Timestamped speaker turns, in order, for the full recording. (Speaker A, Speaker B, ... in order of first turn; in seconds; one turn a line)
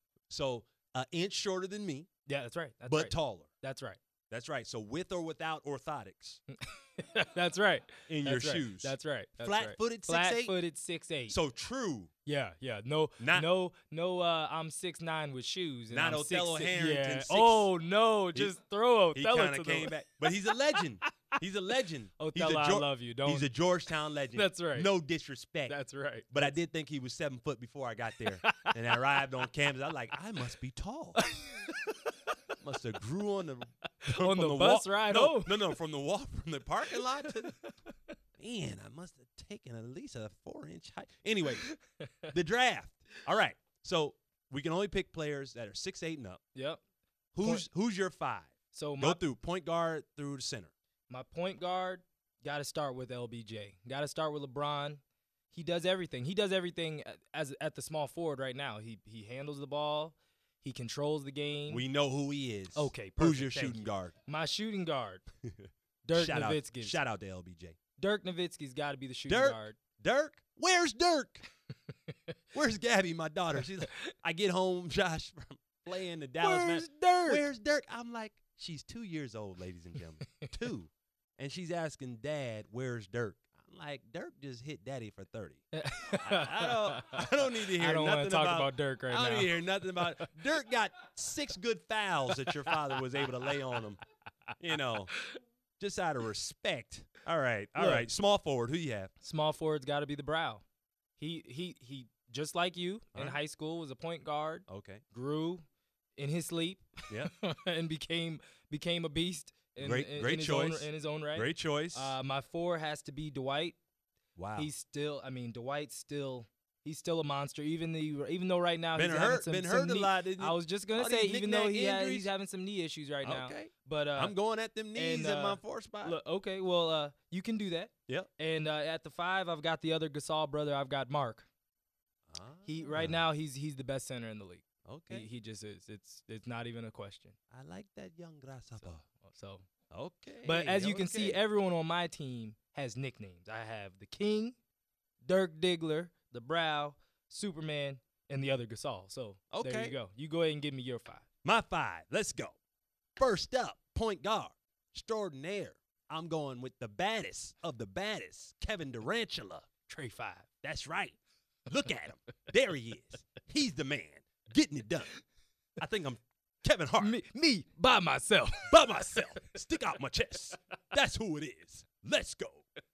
Speaker A: 0.3-2.1
Speaker B: 2.3-4.0
Speaker A: 2.9-3.5
Speaker A: 4.3-6.4
Speaker B: 6.6-11.4
Speaker A: 8.1-10.6
Speaker A: 11.3-12.1
Speaker B: 12.3-20.0
Speaker A: 13.2-13.5
Speaker A: 15.9-17.7
Speaker A: 19.1-25.8
Speaker B: 20.8-21.4
Speaker B: 22.2-23.5
Speaker B: 24.4-24.9
Speaker B: 25.7-26.5
Speaker A: 26.3-31.3
Speaker B: 28.4-29.0
Speaker B: 31.2-32.0
Speaker A: 32.6-37.6
Speaker B: 34.0-35.7
Speaker B: 37.5-37.7
Speaker A: 38.4-41.7
Speaker B: 41.6-42.3
Speaker A: 42.3-46.4
Speaker B: 46.5-46.8
Speaker A: 47.4-50.7
Speaker B: 48.7-49.2
Speaker B: 51.1-55.0
Speaker B: 55.5-61.9
Speaker A: 61.7-64.1
Speaker B: 62.8-65.2
Speaker A: 65.5-67.8
Speaker B: 66.0-67.0
Speaker B: 68.0-69.8
Speaker A: 69.3-71.4
Speaker A: 72.5-94.0
Speaker B: 76.4-77.5
Speaker B: 85.7-90.3
Speaker A: 94.6-95.2
Speaker A: 95.8-99.1
Speaker B: 97.8-98.1
Speaker B: 99.2-100.6
Speaker B: 101.2-105.6
Speaker A: 104.7-105.0
Speaker B: 106.2-113.8
Speaker A: 109.8-112.2
Speaker A: 114.4-114.7
Speaker B: 114.6-124.3
Speaker A: 119.0-122.3
Speaker A: 123.2-126.2
Speaker B: 125.0-131.5
Speaker A: 132.3-133.2
Speaker B: 132.7-137.4
Speaker A: 134.8-135.3
Speaker A: 137.5-139.1
Speaker B: 139.1-139.7
Speaker A: 139.9-141.4
Speaker B: 140.4-144.6
Speaker B: 145.2-151.2
Speaker A: 149.5-150.0
Speaker A: 151.4-152.6
Speaker A: 153.2-159.7
Speaker B: 159.9-160.5
Speaker A: 160.6-165.1
Speaker A: 165.8-167.2
Speaker B: 167.0-169.5
Speaker A: 168.7-172.7